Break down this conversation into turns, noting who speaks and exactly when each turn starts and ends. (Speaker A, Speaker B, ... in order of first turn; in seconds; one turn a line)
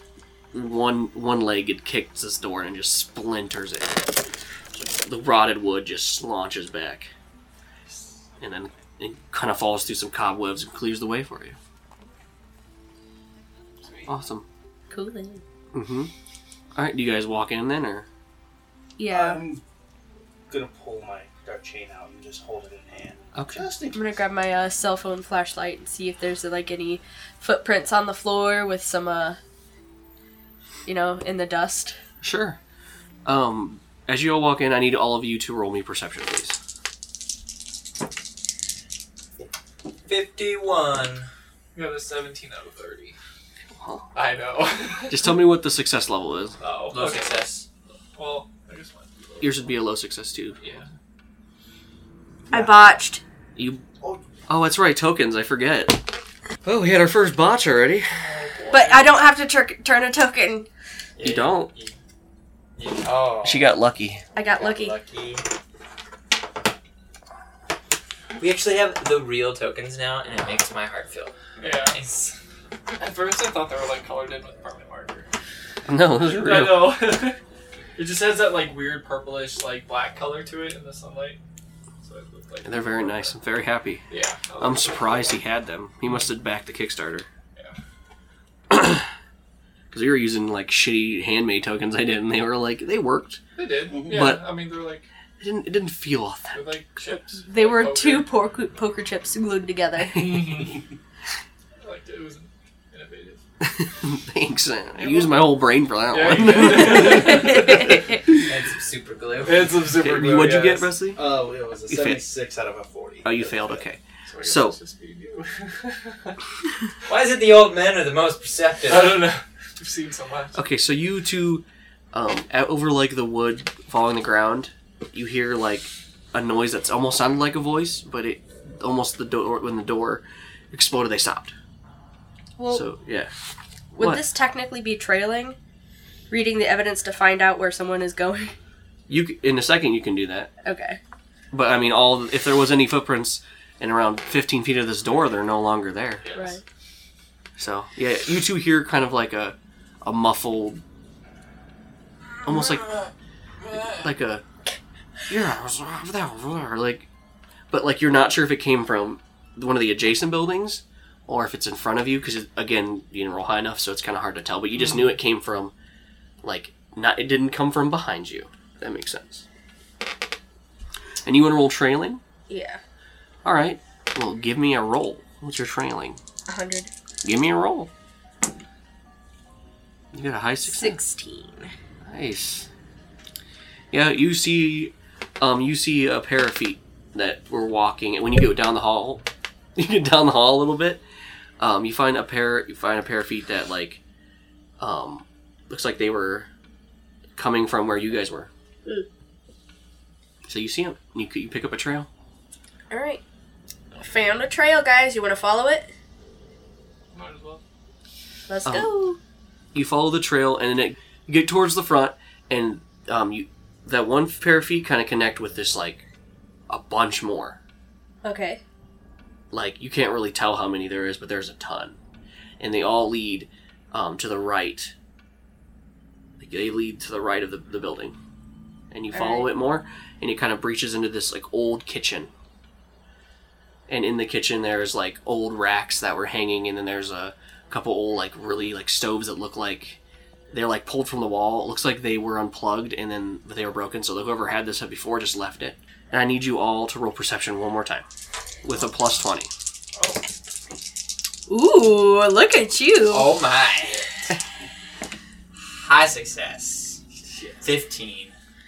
Speaker A: 0.5-4.1
Speaker A: 4.7-7.1
Speaker A: 8.4-11.6
Speaker B: 13.8-14.1
Speaker A: 14.1-14.4
Speaker C: 14.9-15.4
Speaker A: 15.7-16.1
Speaker A: 16.8-18.1
Speaker C: 19.0-19.4
Speaker D: 19.1-19.6
Speaker D: 20.5-24.1
Speaker A: 23.4-23.7
Speaker C: 23.9-29.4
Speaker C: 30.9-32.0
Speaker A: 32.2-32.6
Speaker A: 33.2-36.6
Speaker E: 40.1-41.3
Speaker B: 41.8-43.2
Speaker A: 43.7-44.1
Speaker B: 44.1-45.3
Speaker A: 45.1-46.6
Speaker B: 46.6-47.4
Speaker E: 46.9-47.7
Speaker B: 48.1-49.6
Speaker A: 49.4-50.6
Speaker B: 50.6-50.9
Speaker C: 52.5-53.2
Speaker D: 52.5-52.8
Speaker A: 53.6-53.8
Speaker A: 54.5-56.0
Speaker A: 56.6-58.2
Speaker B: 58.1-59.1
Speaker C: 58.7-60.7
Speaker E: 61.2-62.0
Speaker A: 61.2-61.7
Speaker E: 62.8-63.7
Speaker A: 63.4-64.2
Speaker C: 64.3-65.0
Speaker E: 64.4-65.5
Speaker E: 68.4-72.3
Speaker B: 71.6-72.0
Speaker B: 73.0-75.3
Speaker A: 75.9-77.0
Speaker B: 76.2-77.4
Speaker B: 78.0-81.4
Speaker B: 82.0-83.3
Speaker A: 82.7-84.0
Speaker B: 84.1-85.4
Speaker A: 84.6-87.3
Speaker A: 88.7-89.1
Speaker A: 89.9-93.4
Speaker B: 93.6-95.1
Speaker D: 93.9-94.3
Speaker A: 94.1-94.5
Speaker A: 95.4-96.8
Speaker B: 96.5-98.3
Speaker C: 97.4-100.6
Speaker B: 100.1-100.8
Speaker B: 101.8-103.4
Speaker A: 103.6-108.0
Speaker B: 105.0-105.5
Speaker B: 106.1-108.0
Speaker C: 107.1-108.0
Speaker E: 108.4-109.8
Speaker B: 109.4-110.9
Speaker A: 110.0-111.4
Speaker D: 111.1-113.8
Speaker A: 111.9-112.2
Speaker A: 113.2-114.8
Speaker B: 114.3-116.4
Speaker E: 117.1-119.2
Speaker B: 118.9-120.6
Speaker A: 120.5-131.6
Speaker C: 132.6-132.9
Speaker A: 132.7-133.3
Speaker A: 134.0-134.2
Speaker C: 134.0-135.6
Speaker C: 136.3-138.5
Speaker A: 139.1-140.5
Speaker C: 140.6-141.0
Speaker A: 141.5-146.2
Speaker B: 146.2-146.6
Speaker C: 146.3-146.6
Speaker A: 147.6-150.8
Speaker A: 152.4-153.0
Speaker B: 152.5-153.1
Speaker B: 153.6-154.1
Speaker A: 153.7-154.4
Speaker A: 155.3-157.1
Speaker A: 157.7-165.7
Speaker A: 166.4-169.4
Speaker A: 171.2-172.2
Speaker C: 172.5-172.8
Speaker A: 173.4-176.2
Speaker C: 176.5-176.9
Speaker A: 177.2-177.9
Speaker A: 180.1-181.0
Speaker C: 180.6-181.7
Speaker A: 182.1-182.7
Speaker A: 183.9-189.2
Speaker A: 189.8-191.0
Speaker A: 191.6-194.0
Speaker A: 194.8-196.5
Speaker A: 197.4-198.5
Speaker A: 200.4-202.1
Speaker C: 202.9-203.2
Speaker C: 204.0-205.9
Speaker B: 207.1-207.6
Speaker C: 208.5-209.2
Speaker A: 208.7-208.9
Speaker A: 209.7-216.0
Speaker A: 216.7-217.6
Speaker C: 218.2-218.6
Speaker A: 219.5-222.0
Speaker A: 222.6-224.9
Speaker A: 226.4-228.2
Speaker A: 228.9-232.3
Speaker C: 229.1-229.5
Speaker A: 233.9-240.0
Speaker A: 240.5-248.1
Speaker A: 248.6-249.5
Speaker B: 250.0-250.2
Speaker C: 251.5-253.4
Speaker E: 253.1-254.1
Speaker E: 255.7-257.0
Speaker B: 257.3-257.6
Speaker E: 257.6-258.4